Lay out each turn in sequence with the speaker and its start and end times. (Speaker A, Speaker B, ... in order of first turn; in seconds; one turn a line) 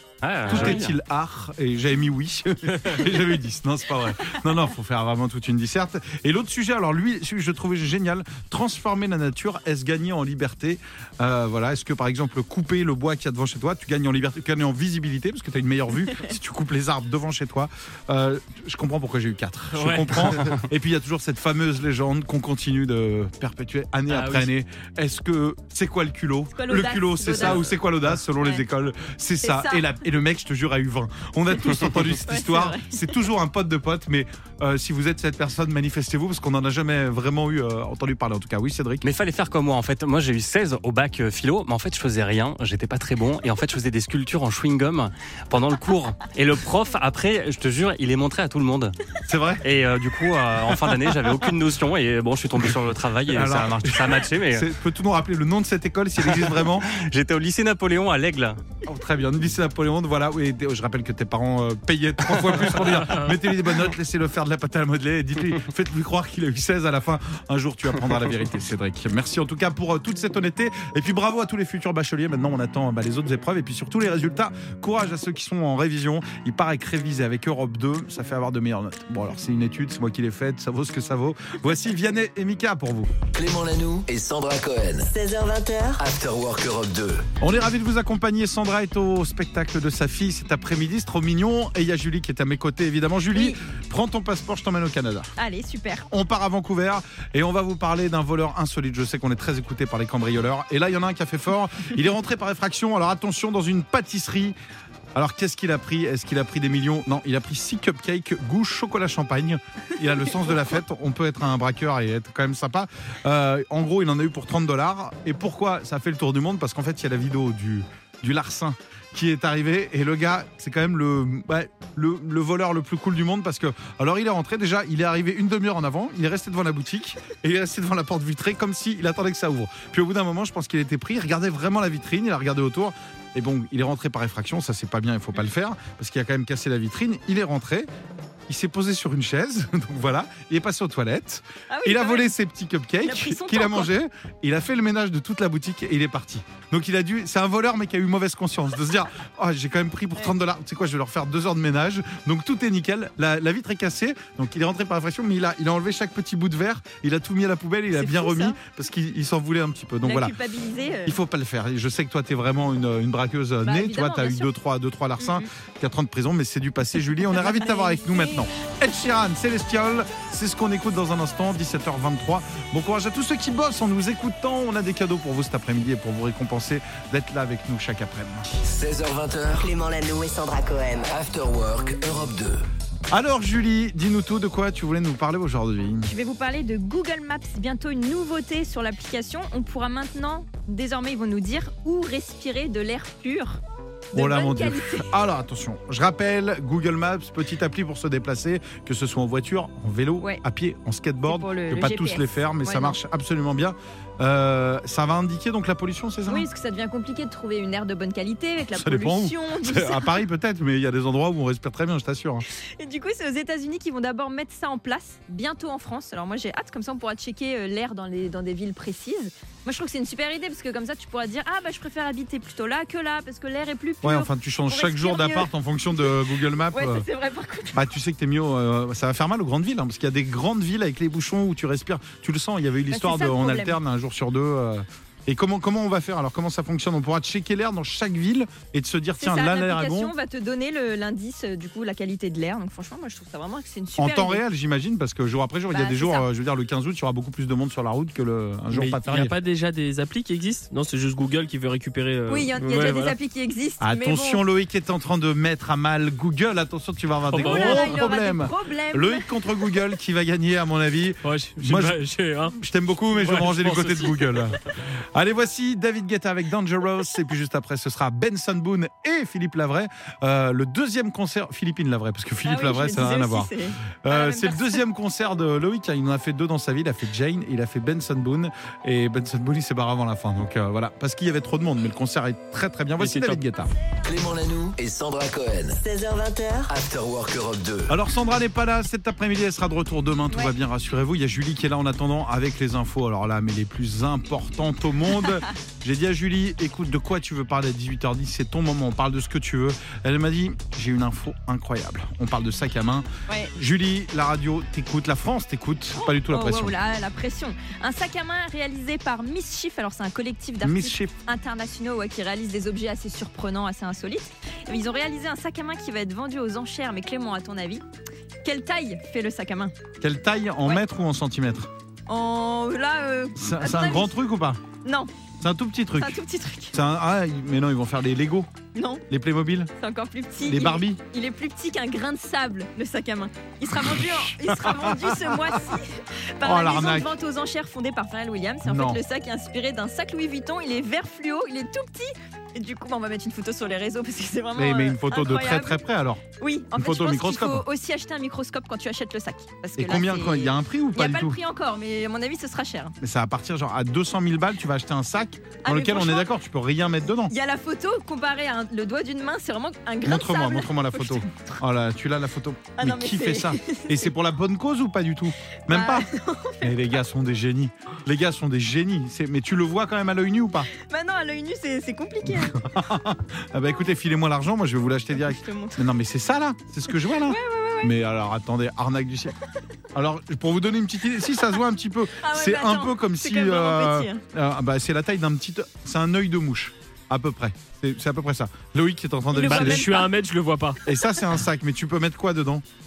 Speaker A: 0.2-0.9
Speaker B: 0.5-39.0
Speaker C: 19.7-20.6
Speaker C: 24.1-24.5
Speaker D: 26.6-27.7
Speaker D: 29.4-29.9
Speaker D: 32.3-33.1
Speaker A: 39.0-49.0
Speaker B: 49.3-49.6
Speaker A: 49.6-54.7
Speaker B: 50.7-51.0
Speaker B: 52.5-56.9
Speaker A: 56.2-58.6
Speaker B: 58.8-83.1
Speaker E: 83.3-85.1
Speaker F: 85.1-86.0
Speaker E: 86.0-87.3
Speaker B: 87.4-95.3
Speaker D: 93.3-93.6
Speaker D: 95.4-96.1
Speaker B: 96.1-104.6
Speaker B: 105.1-137.9
Speaker B: 138.5-160.3
Speaker D: 141.7-142.3
Speaker D: 143.0-143.9
Speaker D: 157.9-158.6
Speaker D: 160.0-161.2
Speaker B: 161.1-178.5
Speaker D: 163.6-164.5
Speaker D: 165.2-165.5
Speaker D: 167.3-168.5
Speaker E: 178.6-179.7
Speaker F: 179.6-181.1
Speaker E: 181.0-182.6
Speaker B: 183.1-186.1
Speaker D: 186.1-193.6
Speaker D: 194.1-195.1
Speaker B: 194.1-206.5
Speaker D: 201.3-203.0
Speaker D: 206.3-210.2
Speaker B: 208.7-212.4
Speaker D: 212.6-225.5
Speaker B: 224.0-227.1
Speaker D: 226.7-227.8
Speaker B: 227.7-240.1
Speaker D: 232.9-233.8
Speaker D: 239.2-244.4
Speaker B: 244.0-249.3
Speaker D: 245.7-246.3
Speaker C: 248.7-253.2
Speaker D: 252.3-254.4
Speaker B: 253.8-262.0
Speaker C: 257.3-257.9
Speaker D: 257.3-259.3
Speaker C: 261.2-262.6
Speaker B: 262.5-273.5
Speaker C: 263.1-264.5
Speaker D: 272.4-274.8
Speaker B: 274.0-283.7
Speaker C: 283.0-283.4
Speaker E: 284.1-285.8
Speaker F: 285.8-286.7
Speaker E: 286.7-287.9
Speaker B: 287.9-306.8
Speaker D: 303.3-303.6
Speaker D: 305.9-317.8
Speaker B: 310.6-311.1
Speaker D: 318.4-319.7
Speaker B: 320.0-321.7
Speaker D: 322.1-324.1
Speaker B: 323.4-324.6
Speaker D: 324.8-325.1
Speaker B: 325.4-326.2
Speaker D: 326.0-326.8
Speaker B: 326.7-328.5
Speaker D: 328.8-329.0
Speaker B: 329.1-329.7
Speaker D: 329.8-345.8
Speaker B: 330.4-331.0
Speaker B: 333.7-335.6
Speaker B: 336.4-337.1
Speaker B: 338.6-339.0
Speaker B: 344.6-346.2
Speaker D: 346.4-352.9
Speaker B: 346.8-347.6
Speaker B: 349.8-351.4
Speaker B: 353.0-357.3
Speaker D: 355.6-356.3
Speaker D: 357.3-361.6
Speaker B: 360.0-366.1
Speaker D: 362.8-364.1
Speaker D: 365.7-366.8
Speaker B: 366.6-370.7
Speaker D: 370.7-372.6
Speaker B: 372.2-379.4
Speaker D: 375.2-375.9
Speaker D: 377.1-377.9
Speaker B: 379.9-389.9
Speaker D: 382.2-384.2
Speaker D: 389.3-390.1
Speaker C: 389.4-390.8
Speaker B: 390.9-392.6